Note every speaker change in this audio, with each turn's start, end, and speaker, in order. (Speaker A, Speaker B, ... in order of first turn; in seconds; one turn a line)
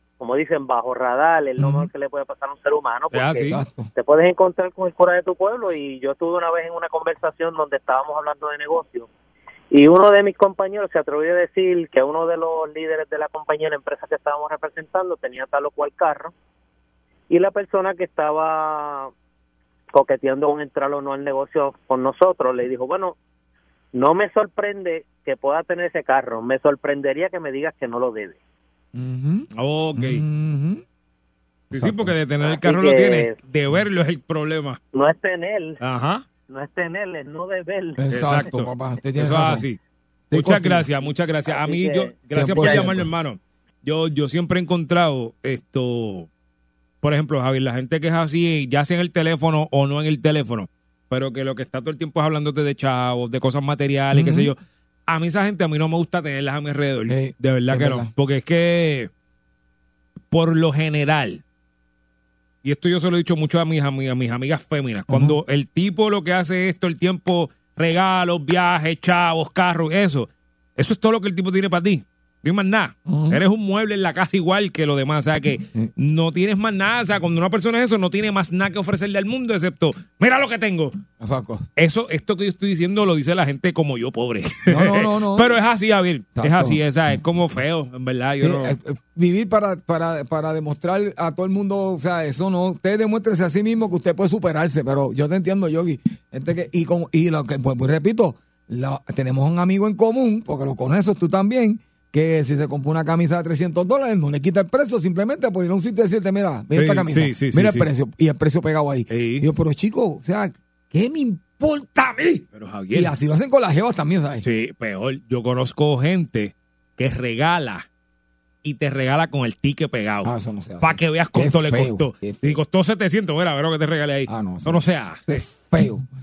Speaker A: 0.2-9.1
Speaker B: 1.6-1.9
Speaker C: 3.1-3.6
Speaker B: 3.5-3.9
Speaker A: 9.7-16.3
Speaker A: 17.3-19.1
Speaker A: 19.9-23.2
Speaker A: 23.9-28.4
Speaker B: 28.9-30.8
Speaker C: 29.6-30.2
Speaker B: 31.7-32.1
Speaker C: 31.7-34.8
Speaker A: 32.4-33.4
Speaker A: 34.9-35.8
Speaker C: 35.8-36.2
Speaker A: 36.5-38.0
Speaker B: 38.0-39.6
Speaker C: 38.1-39.8
Speaker C: 40.3-46.3
Speaker B: 40.3-40.9
Speaker A: 41.5-42.1
Speaker B: 42.3-43.1
Speaker C: 47.0-59.1
Speaker B: 54.1-54.5
Speaker B: 57.1-58.1
Speaker C: 60.3-61.4
Speaker C: 62.6-80.9
Speaker B: 65.1-65.4
Speaker B: 73.1-73.4
Speaker B: 81.2-81.7
Speaker C: 81.8-88.8
Speaker B: 84.7-85.5
Speaker B: 86.4-86.8
Speaker B: 88.4-114.5
Speaker C: 106.8-107.9
Speaker C: 109.1-109.5
Speaker C: 112.5-113.1
Speaker C: 114.4-117.9
Speaker C: 118.6-125.4
Speaker B: 120.2-122.6
Speaker B: 124.3-126.0